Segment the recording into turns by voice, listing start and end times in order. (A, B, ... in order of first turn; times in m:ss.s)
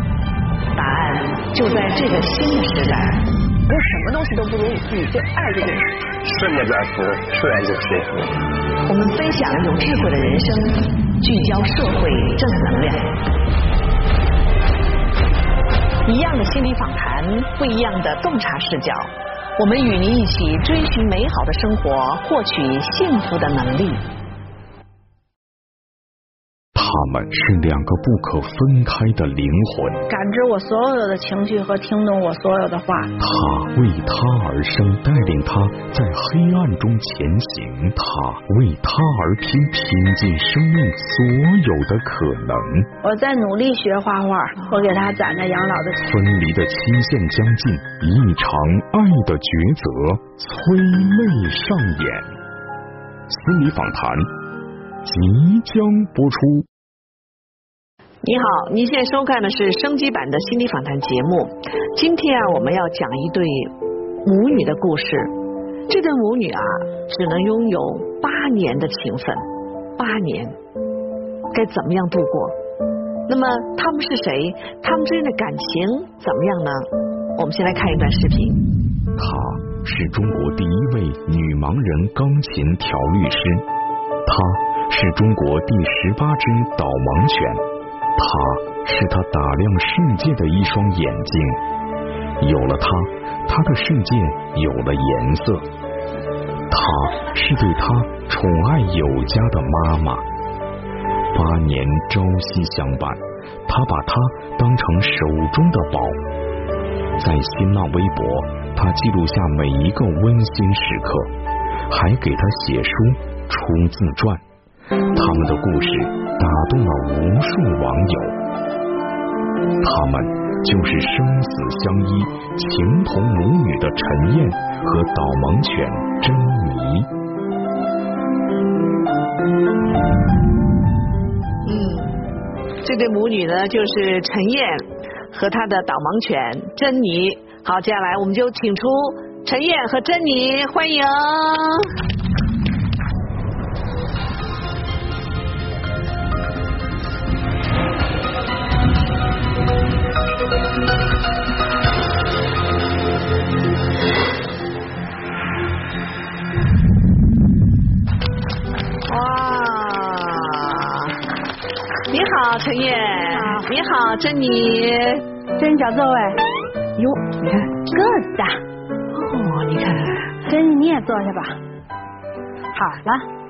0:00.8-0:03.3 A
0:03.7-0:05.9 B
0:06.2-0:08.3 C
0:08.8-0:13.2 A
0:16.0-0:24.0 A
0:26.8-0:30.1 D
0:30.1-0:33.1 E
0:33.2-0:42.9 D
0:43.0-0:46.1 E
0:46.0-0:52.3 D
0:53.3-0:54.3 D
0:55.0-0:56.7 D
0:58.2-1:03.7 A
1:04.2-1:05.3 A
1:05.9-1:09.4 A
1:10.0-1:10.6 A
1:11.5-1:12.6 A
1:13.3-1:18.6 A
1:19.2-1:23.7 D
1:24.2-1:27.6 D
1:28.2-1:31.6 D
1:32.4-1:35.7 D
1:36.7-1:40.2 D
1:41.3-1:46.2 D
1:47.2-1:51.3 D
1:51.9-1:54.4 D
1:55.1-1:58.4 D
1:59.8-2:07.1 D
2:11.6-2:12.3 A
2:12.8-2:21.9 A
2:39.1-2:41.2 A
2:42.1-2:45.2 A
2:43.3-2:43.7 E
2:45.6-2:46.4 E
2:47.0-2:47.8 A
2:47.9-2:48.6 E
2:49.1-2:50.4 A
2:50.5-2:51.6 E
2:52.7-2:53.3 E